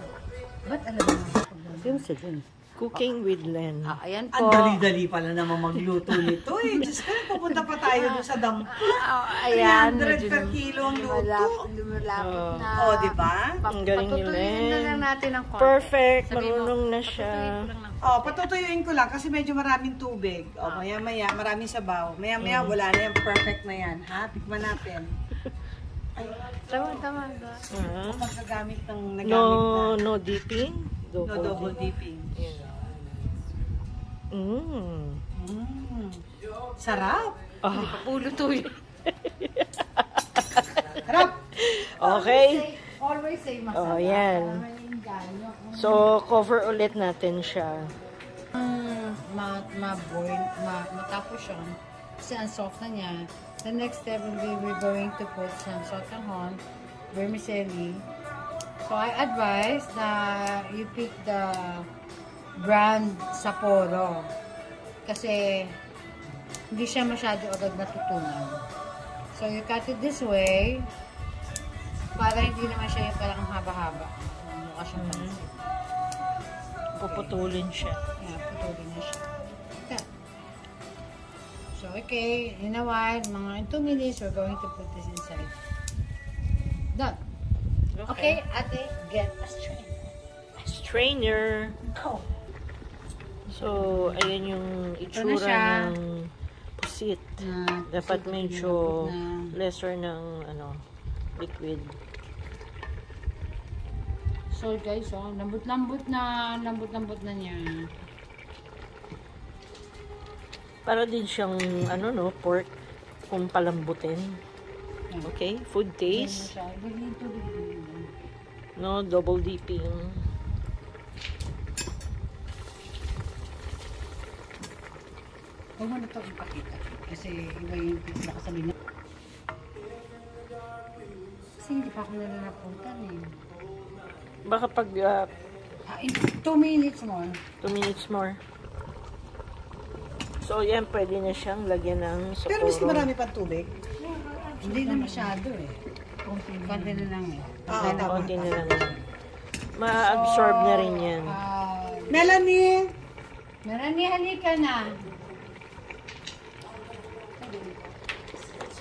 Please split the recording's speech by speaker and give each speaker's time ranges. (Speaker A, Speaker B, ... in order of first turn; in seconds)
Speaker A: 0.6-2.4, 3.8-4.9, 7.8-18.5, 20.6-20.9, 26.7-27.7, 37.7-38.8, 42.0-46.1, 48.5-56.6, 57.1-58.0, 58.8-61.9, 62.6-64.3, 65.0-65.8, 66.7-68.6, 69.3-70.9, 72.1-75.6, 77.1-77.3, 78.2-79.2, 81.7-85.5, 86.9-87.2, 88.1-90.1, 93.5-94.1, 95.1-95.9, 97.4-99.5, 104.5-107.9, 116.1-118.1, 125.8-128.7, 131.6-133.3, 135.9-137.4, 144.6-145.8, 146.6-148.9, 149.9-152.4, 153.6-154.9
Speaker B: 2.8-3.9, 12.2-12.7, 13.7-17.6, 22.4-22.8, 27.7-28.3, 29.2-31.8, 32.3-32.7, 34.3-35.2, 37.6-38.1, 39.1-41.0, 41.5-42.7, 43.7-44.6, 45.7-47.9, 75.0-75.4, 77.0-78.0, 88.0-88.4, 90.6-91.8, 93.5-100.8, 101.4-102.0, 110.8-112.7, 113.3-114.4, 115.2-116.5, 118.8-120.2, 134.4-135.3, 137.6-138.3, 140.4-143.1, 147.7-149.0, 149.8-151.4
Speaker C: 4.3-11.7, 12.8-13.5, 18.0-25.1, 26.1-27.2, 28.1-30.0, 31.2-32.3, 35.4-36.2, 36.8-37.4, 41.0-41.4, 91.9-92.2, 142.5-145.3, 146.2-147.1, 147.7-148.7, 152.1-152.9